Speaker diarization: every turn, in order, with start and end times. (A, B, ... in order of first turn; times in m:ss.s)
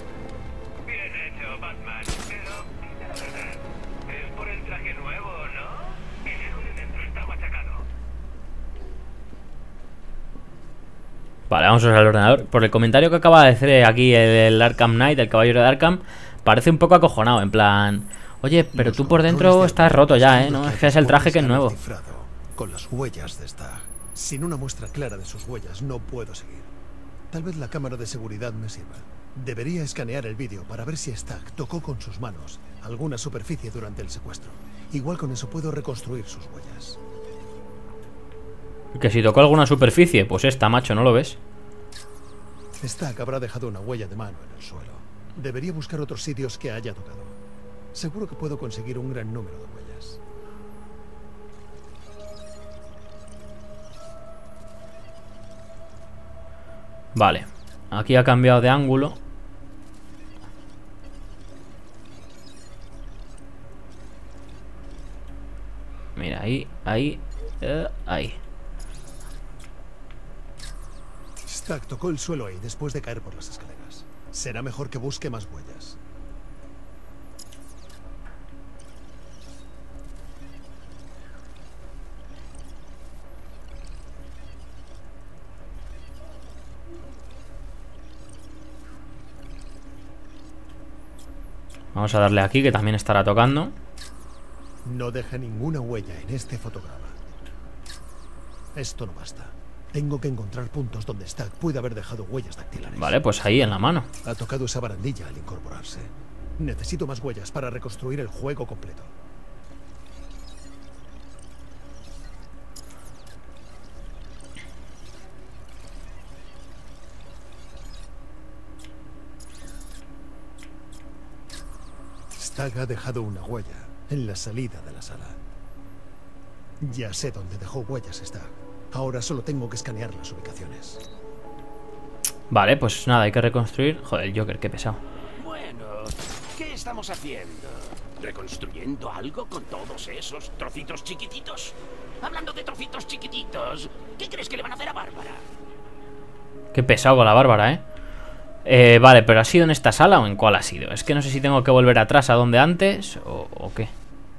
0:00.9-0:03.4 A
0:04.1-0:05.7 A
0:06.6-0:07.7 A
0:11.5-0:21.8 B
0:18.7-0:26.7 C
0:27.3-0:37.0 C
0:38.9-0:41.4 B
0:42.8-0:47.4 C
0:47.9-0:50.2 C
0:57.1-0:59.2 B
1:06.2-1:08.4 B
1:11.4-1:16.0 C
1:31.9-1:33.7 B
1:34.8-1:37.2 C
1:38.7-1:43.6 C
1:43.0-1:44.1 B
1:44.2-1:49.1 C
2:02.3-2:05.4 C
2:06.8-2:11.0 C
2:12.5-2:15.0 B
2:15.4-2:25.4 A
2:26.7-2:27.8 B
2:28.6-2:33.9 B